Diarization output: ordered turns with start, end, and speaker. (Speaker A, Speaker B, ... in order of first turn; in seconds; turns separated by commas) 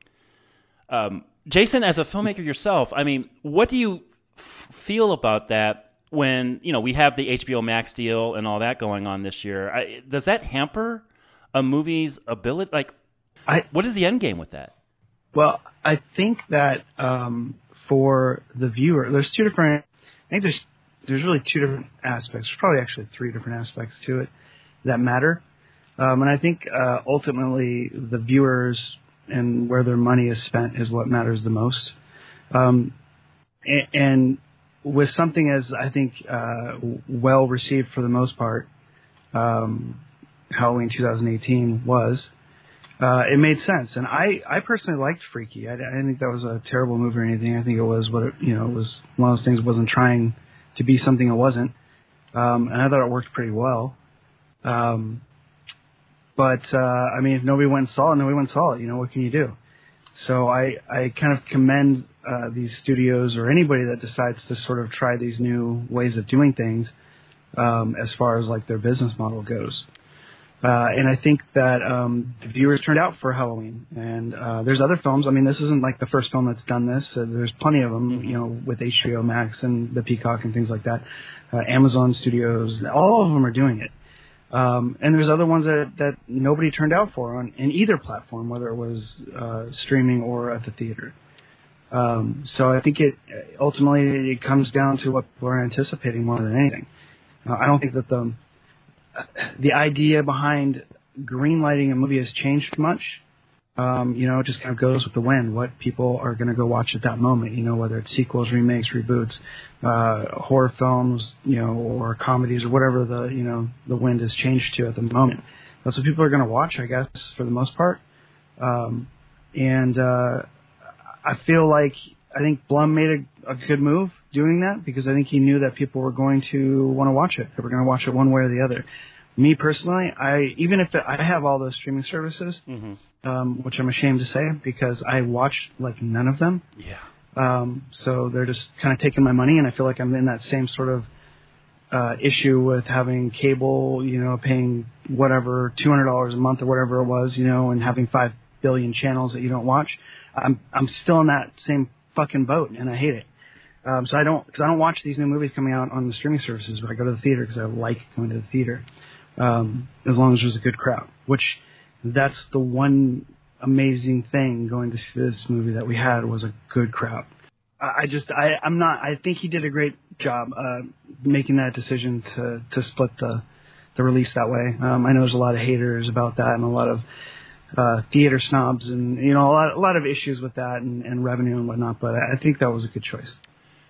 Speaker A: 0.9-12.9, Speaker A: 13.7-14.7, Speaker B: 15.3-24.3, Speaker B: 24.8-25.4, Speaker B: 26.0-31.9, Speaker B: 32.5-32.9, Speaker B: 33.6-38.7, Speaker B: 39.3-42.3, Speaker B: 43.0-51.8, Speaker B: 52.4-54.0, Speaker B: 54.6-55.2, Speaker B: 56.4-59.5, Speaker B: 60.1-66.9, Speaker B: 67.5-69.9, Speaker B: 70.6-83.9, Speaker A: 78.1-78.4, Speaker B: 84.5-91.1, Speaker B: 91.9-96.9, Speaker B: 97.5-98.4, Speaker B: 99.2-103.2, Speaker B: 103.8-118.0, Speaker B: 118.6-120.4, Speaker B: 121.2-128.8, Speaker B: 129.4-132.6, Speaker A: 132.7-133.0, Speaker B: 133.2-136.6, Speaker A: 136.8-137.1, Speaker B: 137.3-141.1, Speaker B: 141.9-153.3, Speaker B: 153.8-158.8, Speaker B: 159.4-167.3, Speaker B: 167.8-173.4, Speaker B: 174.0-177.0, Speaker B: 177.8-183.4